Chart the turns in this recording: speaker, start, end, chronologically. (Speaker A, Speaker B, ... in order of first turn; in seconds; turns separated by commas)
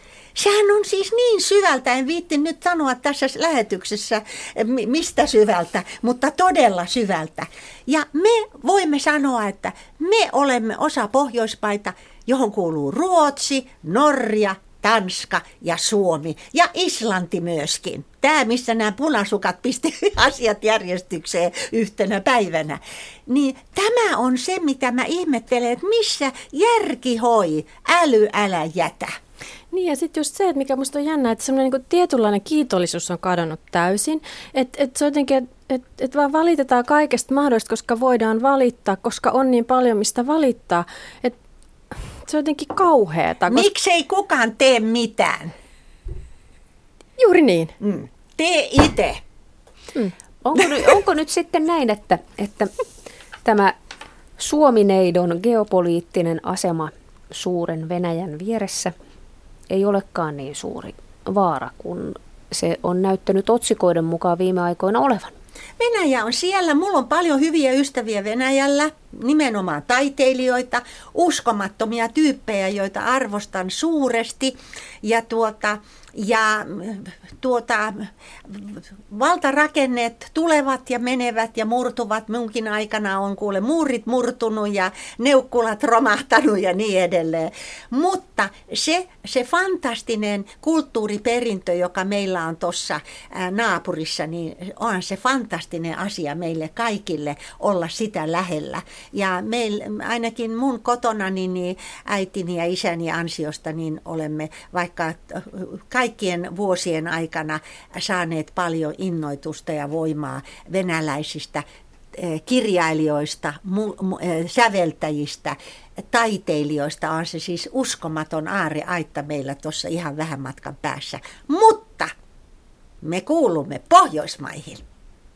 Speaker A: 0.3-29.1, Speaker B: 29.7-41.4, Speaker B: 42.2-43.6, Speaker A: 43.5-45.5, Speaker B: 47.2-47.7, Speaker A: 47.8-49.2, Speaker C: 50.4-52.7, Speaker C: 53.4-53.7, Speaker C: 54.4-58.9, Speaker C: 59.7-65.3, Speaker A: 65.8-122.1, Speaker A: 123.0-124.8